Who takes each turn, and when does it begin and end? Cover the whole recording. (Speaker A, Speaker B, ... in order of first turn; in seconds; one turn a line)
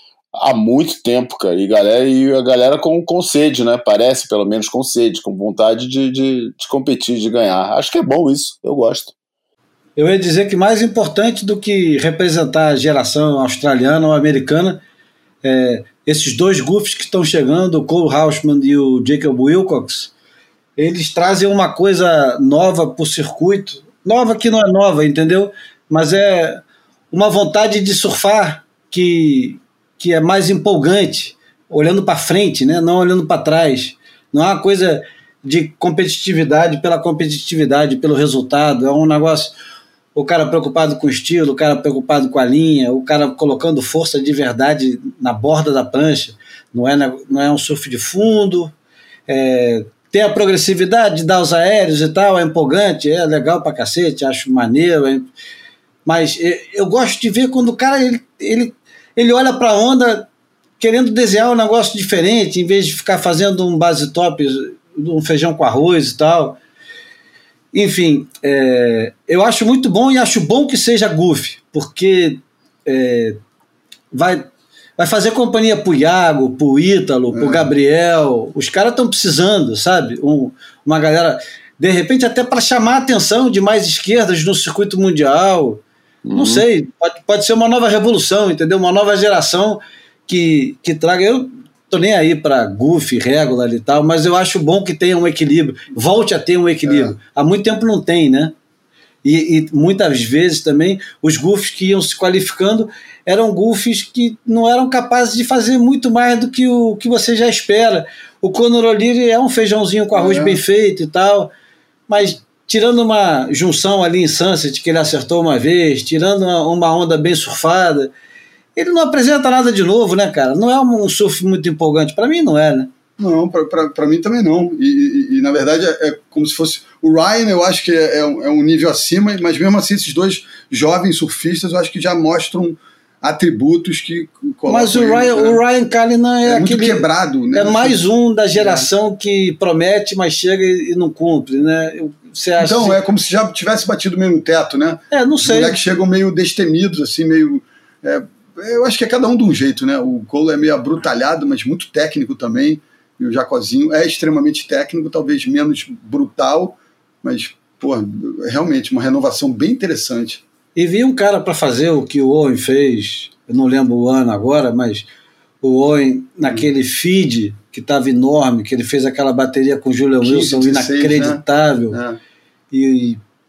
Speaker A: 0.3-9.1
Speaker B: 10.0-14.8
Speaker B: 15.4-20.1
Speaker B: 20.8-39.5
Speaker B: 40.1-48.7
Speaker B: 49.3-55.3
Speaker B: 56.0-60.3
Speaker B: 60.8-66.6
Speaker B: 67.7-73.4
Speaker B: 74.1-85.8
Speaker C: 77.3-77.7
Speaker A: 86.2-86.6
Speaker B: 86.3-98.5
Speaker C: 96.8-97.1
Speaker B: 99.2-111.5
Speaker C: 110.1-110.6
Speaker B: 112.1-118.1
Speaker B: 118.8-122.9
Speaker C: 123.2-135.6
Speaker B: 134.7-137.0
Speaker C: 136.4-138.0
Speaker B: 137.5-143.0
Speaker C: 138.5-138.9
Speaker C: 142.6-160.4
Speaker B: 145.1-145.8
Speaker B: 160.8-165.1
Speaker B: 165.6-172.0
Speaker C: 170.2-172.2
Speaker B: 172.7-173.2